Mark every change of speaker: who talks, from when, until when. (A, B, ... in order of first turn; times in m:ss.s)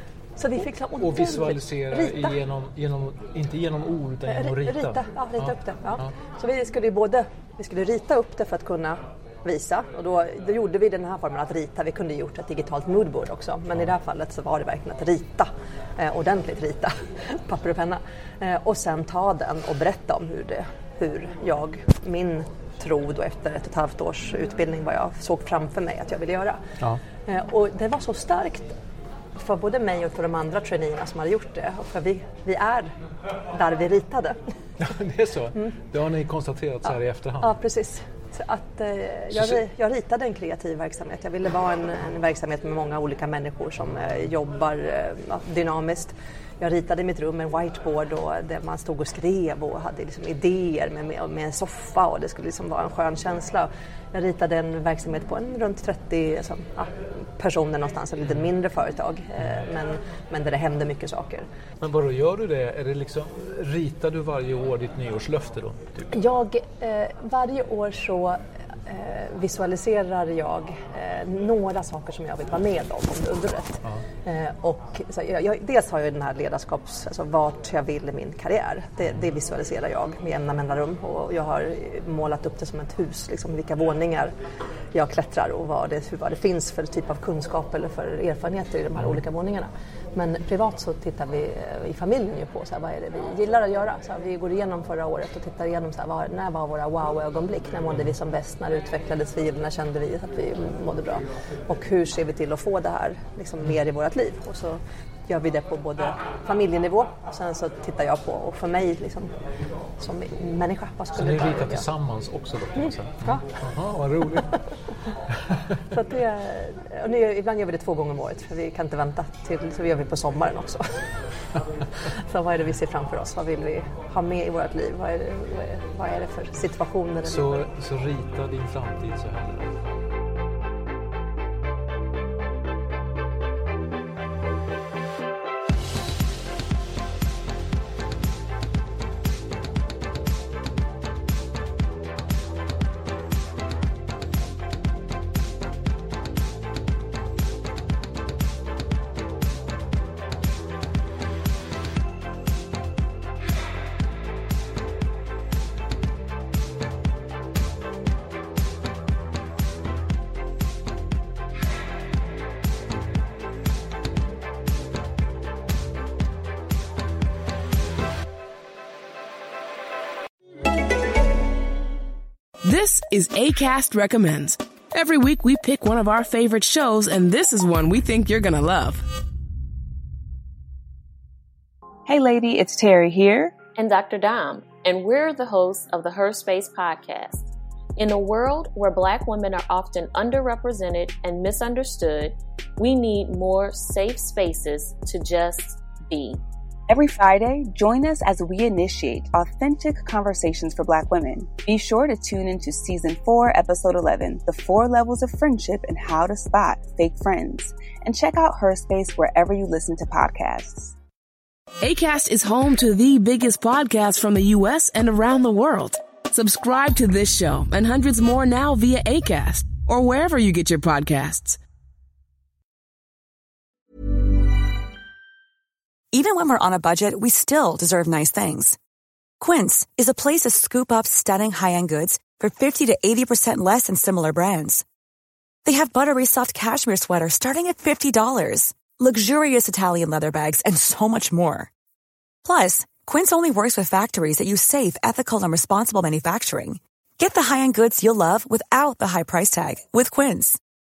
0:00.4-0:02.4 A
0:01.0-0:06.0 B
0:04.3-0:26.6 A
0:27.2-0:28.7 A
0:29.3-0:32.9 A
0:33.5-0:34.4 A
0:34.8-0:37.6 B
0:37.4-1:01.4 A
0:39.3-0:39.6 B
1:01.8-1:06.1 B
1:06.1-1:24.3 A
1:24.9-1:49.3 A
1:50.0-1:51.8 A
1:51.1-1:54.5 B
1:52.8-1:53.5 A
1:55.9-2:01.0 A
2:02.1-2:07.6 A
2:07.2-2:09.8 B
2:52.6-2:59.0 C
3:02.0-3:03.6 D
3:03.7-3:16.4 E
3:16.9-3:30.9 D
3:31.8-3:41.6 C
3:46.1-3:48.8 F
3:49.4-3:54.8 F
3:55.6-4:01.7 F
4:02.4-4:10.6 F